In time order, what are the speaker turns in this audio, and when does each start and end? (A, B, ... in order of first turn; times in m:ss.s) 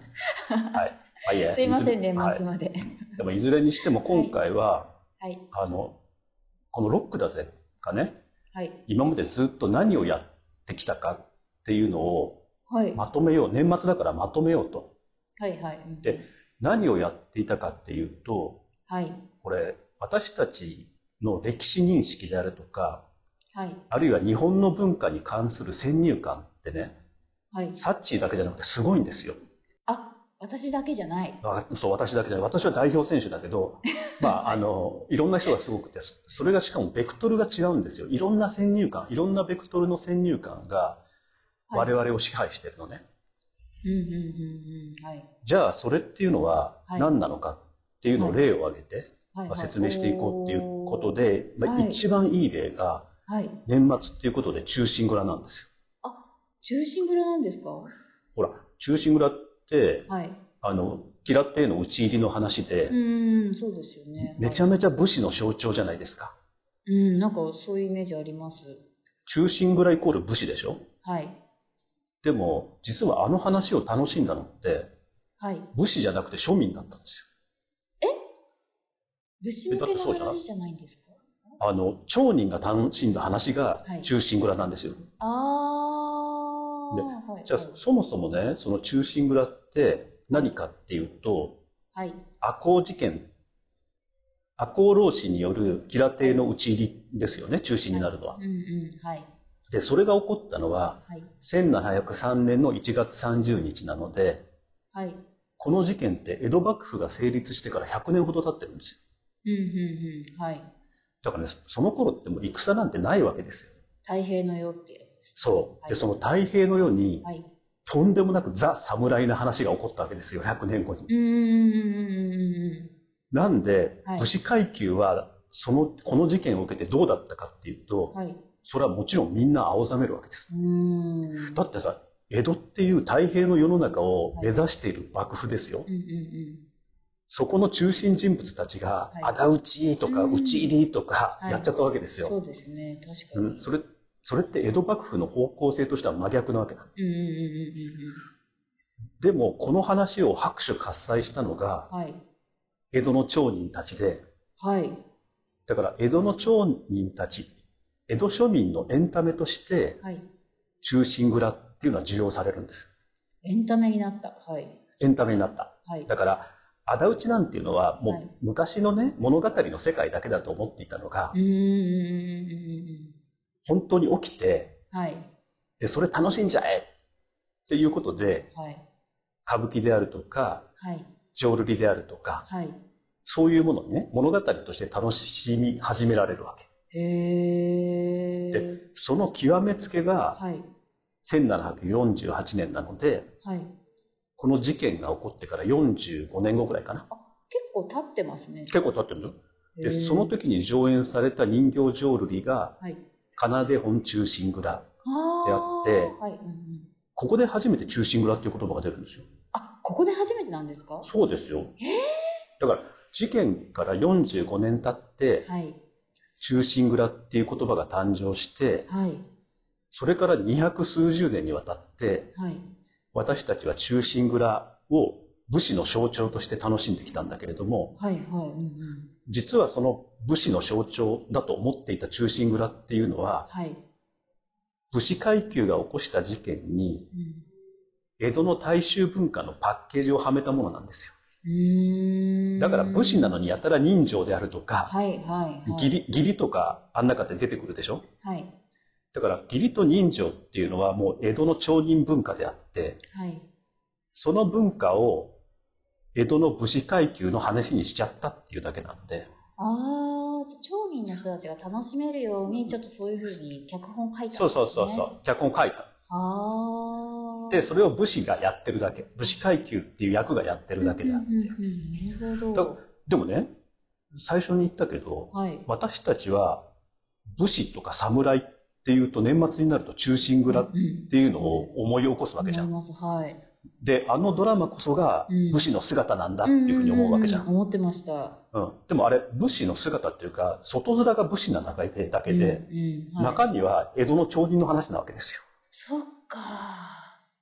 0:00.4-0:03.2 A
0:00.7-0:02.4 B
0:03.2-0:04.9 B
0:04.0-0:04.4 A
0:05.2-0:05.4 A
0:05.5-0:06.0 B
0:06.7-0:08.2 B
0:08.5-0:08.8 A
0:08.9-0:12.4 B
0:12.7-0:13.0 A
0:13.0-0:15.0 B
0:15.4-0:16.2 A
0:16.0-0:18.6 B
0:18.9-0:19.3 A
0:19.4-0:23.1 B
0:23.5-0:23.8 A
0:23.9-0:27.0 B
0:27.5-0:27.8 A
0:27.8-0:29.4 B
0:29.9-0:31.4 A
0:31.4-0:41.0 B
0:34.0-0:34.6 A
0:41.7-0:42.0 A
0:41.7-0:43.0 B
0:43.8-0:45.3 A
0:45.4-0:53.1 B
0:46.9-0:47.1 A
0:48.1-0:48.4 A
0:49.3-0:52.0 A
0:53.3-0:53.6 A
0:53.7-0:55.7 B
0:56.0-0:57.9 A
0:58.4-1:00.1 B
1:00.1-1:00.4 A
1:00.6-1:03.0 B
1:02.9-1:04.8 A
1:04.2-1:06.4 B
1:06.9-1:08.8 A
1:09.3-1:10.8 B
1:11.0-1:11.4 A
1:12.2-1:14.9 B
1:15.4-1:15.7 A
1:15.7-1:17.3 B
1:19.4-1:21.2 A
1:19.7-1:20.4 B
1:21.6-1:25.1 B
1:23.8-1:24.1 A
1:25.2-1:27.8 A
1:26.9-1:31.6 B
1:31.9-1:32.2 A
1:32.4-1:33.3 B
1:34.6-1:38.4 B
1:37.9-1:39.3 A
1:39.7-1:44.5 B
1:44.9-1:45.2 A
1:45.6-1:49.0 B
1:49.4-1:50.7 A
1:51.2-1:53.7 B
1:54.0-1:56.2 A
1:55.4-1:57.3 B
1:57.2-1:57.5 A
1:57.9-2:01.1 B
2:01.1-2:02.9 A
2:03.3-2:10.5 B
2:04.0-2:04.3 A
2:08.1-2:08.4 A
2:10.5-2:11.6 A
2:11.5-2:15.9 B
2:15.9-2:16.6 A
2:17.3-2:22.4 B
2:20.0-2:20.7 A
2:21.4-2:23.6 A
2:23.3-2:26.9 B
2:27.0-2:28.2 A
2:29.2-2:31.9 B
2:31.9-2:32.2 A
2:32.9-2:34.2 B
2:34.6-2:35.0 A
2:35.7-2:37.6 B
2:38.1-2:40.0 B
2:40.0-2:40.3 A
2:40.8-2:42.9 B
2:43.4-2:44.8 A
2:45.0-2:51.4 B
2:51.3-2:53.2 A
2:53.6-2:54.8 B
2:54.9-2:55.3 A
2:55.8-2:56.9 B
2:57.7-2:58.5 B
2:58.5-2:58.8 A
2:59.5-3:00.7 B
3:00.8-3:01.1 A
3:01.3-3:02.5 B
3:02.5-3:02.8 A
3:03.2-3:06.7 B
3:06.9-3:08.8 A
3:08.5-3:10.4 B
3:10.3-3:10.7 A
3:11.2-3:13.3 B
3:13.4-3:13.7 A
3:14.4-3:17.1 B
3:17.1-3:18.7 A
3:18.7-3:22.8 B
3:19.8-3:20.4 A
3:23.4-3:24.9 B
3:25.0-3:26.9 A
3:25.4-3:26.1 B
3:27.2-3:29.3 B
3:29.5-3:31.1 A
3:31.0-3:31.8 B
3:31.8-3:32.3 A
3:32.6-3:35.5 B
3:35.4-3:35.8 A
3:36.4-3:38.9 B
3:38.9-3:39.2 A
3:39.9-3:42.3 B
3:42.3-3:42.7 A
3:43.1-3:47.9 B
3:48.0-3:49.1 A
3:49.3-3:53.5 B
3:53.5-3:53.8 A
3:54.9-3:57.1 B
3:57.1-3:57.4 A
3:58.2-4:01.2 B
4:01.4-4:03.4 A
4:02.6-4:04.9 B
4:04.9-4:05.9 A
4:05.7-4:08.0 B
4:08.2-4:08.5 A
4:09.1-4:13.0 B
4:13.1-4:13.5 A
4:14.2-4:15.4 B
4:16.2-4:19.3 B
4:19.6-4:25.1 A
4:22.5-4:22.8 B
4:24.3-4:25.9 B
4:26.1-4:27.7 A
4:27.5-4:31.6 B
4:30.8-4:32.8 A
4:32.5-4:33.5 B
4:34.1-4:36.7 B
4:35.3-4:35.7 A
4:37.4-4:42.7 B
4:40.5-4:41.7 A
4:42.4-4:43.4 A
4:43.8-4:47.5 B
4:45.3-4:45.6 A
4:46.4-4:48.4 A
4:48.5-4:52.6 B
4:52.3-4:53.5 A
4:53.2-4:55.4 B
4:55.7-4:57.2 A